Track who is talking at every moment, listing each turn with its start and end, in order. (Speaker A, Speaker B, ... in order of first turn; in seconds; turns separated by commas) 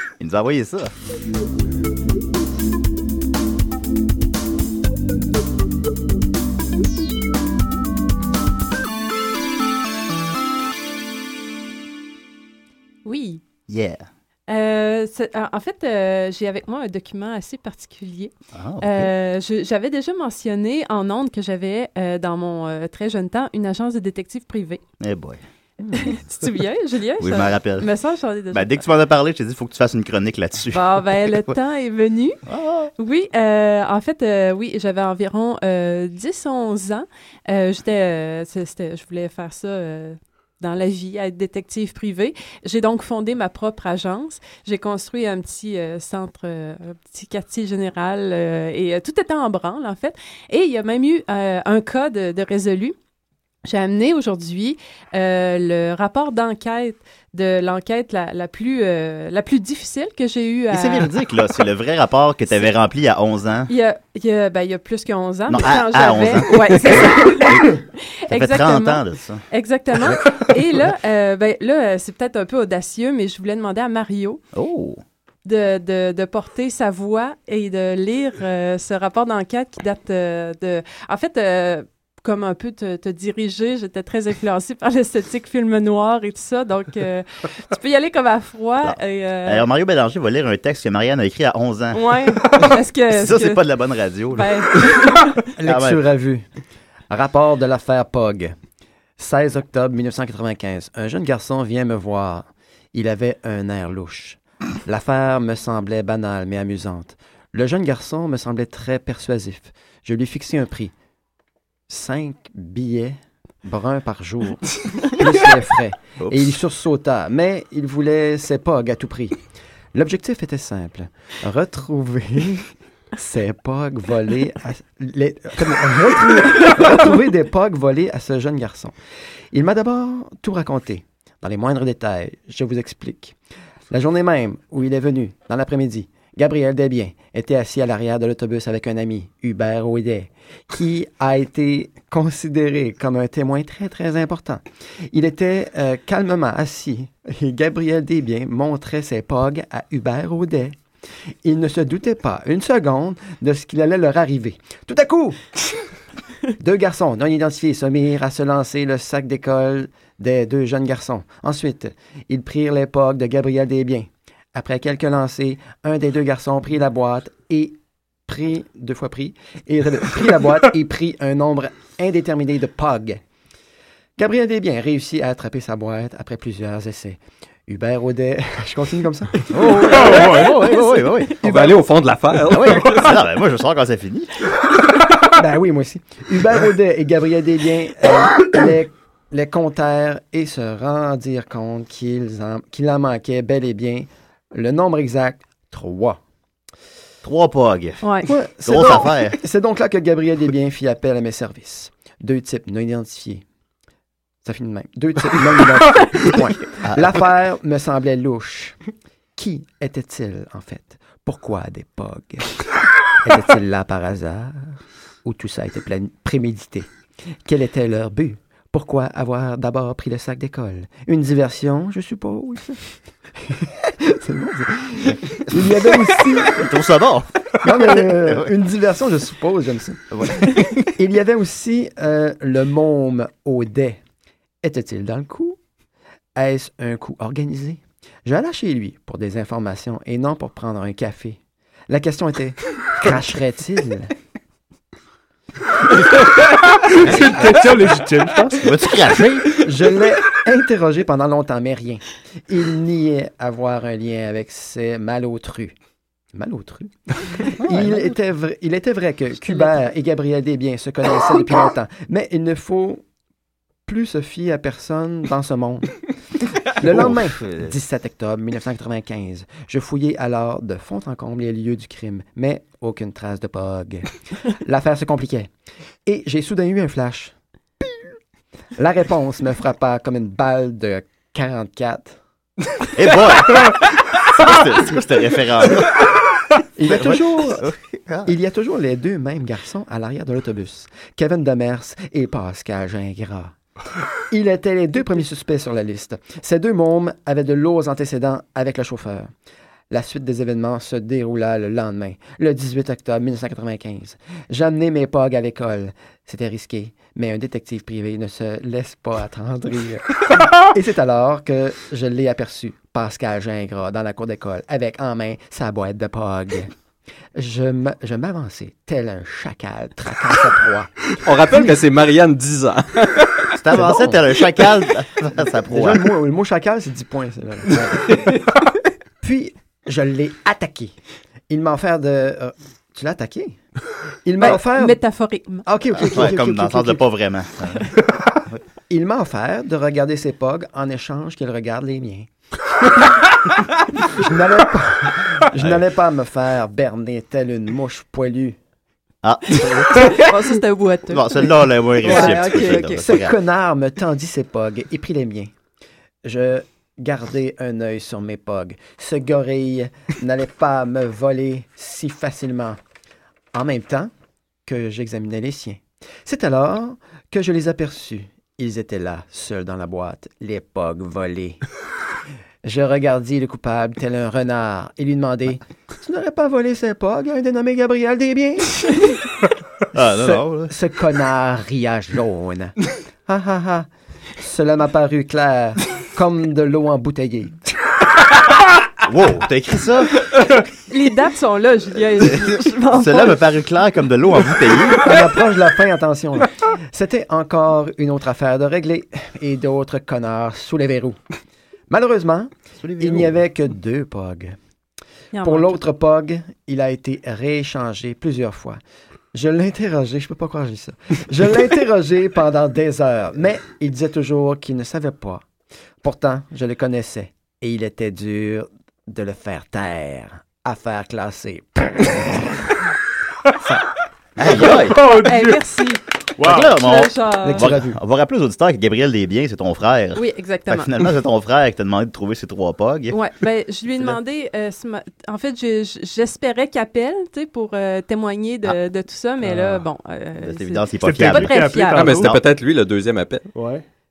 Speaker A: 0.2-0.9, Speaker B: 13.0-13.4, Speaker A: 13.7-14.1, Speaker B: 14.5-24.8, Speaker A: 18.5-19.1, Speaker A: 25.0-25.4, Speaker B: 25.9-28.8, Speaker A: 27.2-27.9, Speaker A: 28.5-31.5, Speaker B: 30.7-32.4, Speaker A: 32.5-32.9, Speaker B: 33.0-52.9, Speaker B: 53.6-61.1, Speaker A: 60.7-63.7, Speaker B: 63.7-74.4, Speaker A: 65.5-67.7, Speaker A: 68.3-69.4, Speaker A: 74.5-75.0, Speaker B: 75.4-89.7, Speaker A: 88.8-94.7, Speaker B: 91.9-93.7, Speaker B: 94.3-95.5, Speaker C: 95.5-96.4, Speaker A: 95.6-96.0, Speaker C: 97.1-98.5, Speaker C: 99.2-110.9, Speaker C: 111.9-119.4, Speaker A: 116.2-116.5, Speaker C: 119.9-128.9, Speaker C: 129.5-133.3, Speaker C: 133.9-150.8, Speaker C: 151.4-155.4, Speaker C: 156.6-173.2, Speaker C: 174.2-179.4, Speaker A: 179.5-181.3, Speaker B: 179.7-181.6, Speaker D: 181.4-183.2, Speaker A: 182.5-184.3, Speaker C: 185.3-196.2, Speaker A: 197.2-199.4, Speaker B: 198.0-198.3, Speaker C: 198.2-203.4, Speaker C: 204.4-208.8, Speaker A: 206.8-207.2, Speaker C: 209.3-212.4, Speaker C: 213.2-216.9, Speaker C: 217.4-222.8, Speaker C: 223.4-226.7, Speaker A: 226.5-228.4, Speaker C: 227.6-234.0, Speaker A: 230.1-230.9, Speaker C: 234.6-235.6, Speaker C: 236.3-244.1, Speaker E: 245.9-248.7, Speaker C: 247.1-247.5, Speaker A: 248.6-249.5, Speaker C: 249.6-255.7, Speaker C: 256.3-263.0, Speaker C: 263.9-266.0, Speaker C: 266.6-275.5, Speaker A: 266.8-267.7, Speaker C: 276.0-277.3, Speaker C: 278.8-282.2, Speaker A: 282.9-286.1, Speaker C: 286.8-287.7, Speaker A: 286.9-288.3, Speaker C: 288.2-293.6, Speaker C: 294.3-299.3, Speaker C: 299.9-316.7, Speaker C: 317.3-321.0, Speaker D: 321.2-323.6, Speaker A: 323.6-326.1, Speaker C: 323.8-324.1, Speaker C: 325.7-328.2, Speaker C: 329.2-330.9, Speaker C: 331.5-333.6, Speaker C: 334.2-335.0, Speaker B: 334.4-335.6, Speaker C: 335.6-337.1, Speaker A: 336.0-337.9, Speaker C: 338.9-342.3, Speaker C: 344.0-348.6, Speaker A: 345.6-345.8, Speaker A: 349.2-350.2, Speaker B: 349.9-353.1, Speaker A: 351.1-353.3, Speaker C: 352.0-355.5, Speaker C: 356.2-362.8, Speaker C: 363.5-364.1, Speaker C: 364.6-371.6, Speaker C: 372.6-379.0, Speaker A: 379.9-380.7, Speaker C: 380.2-387.6, Speaker A: 389.0-390.2, Speaker B: 390.9-393.4, Speaker A: 392.9-395.1, Speaker C: 395.0-401.2, Speaker C: 401.9-404.6, Speaker A: 402.8-403.4, Speaker B: 405.3-405.8, Speaker C: 405.4-408.8, Speaker C: 409.3-415.4, Speaker C: 416.0-422.4, Speaker A: 424.4-425.0, Speaker E: 424.6-425.6, Speaker B: 425.0-427.7, Speaker E: 426.4-426.7, Speaker A: 426.4-433.1, Speaker C: 427.4-428.0, Speaker B: 430.1-431.1, Speaker B: 433.1-442.2, Speaker E: 439.4-439.8, Speaker A: 440.4-442.4, Speaker E: 441.0-442.4, Speaker D: 441.9-443.5, Speaker E: 443.5-443.8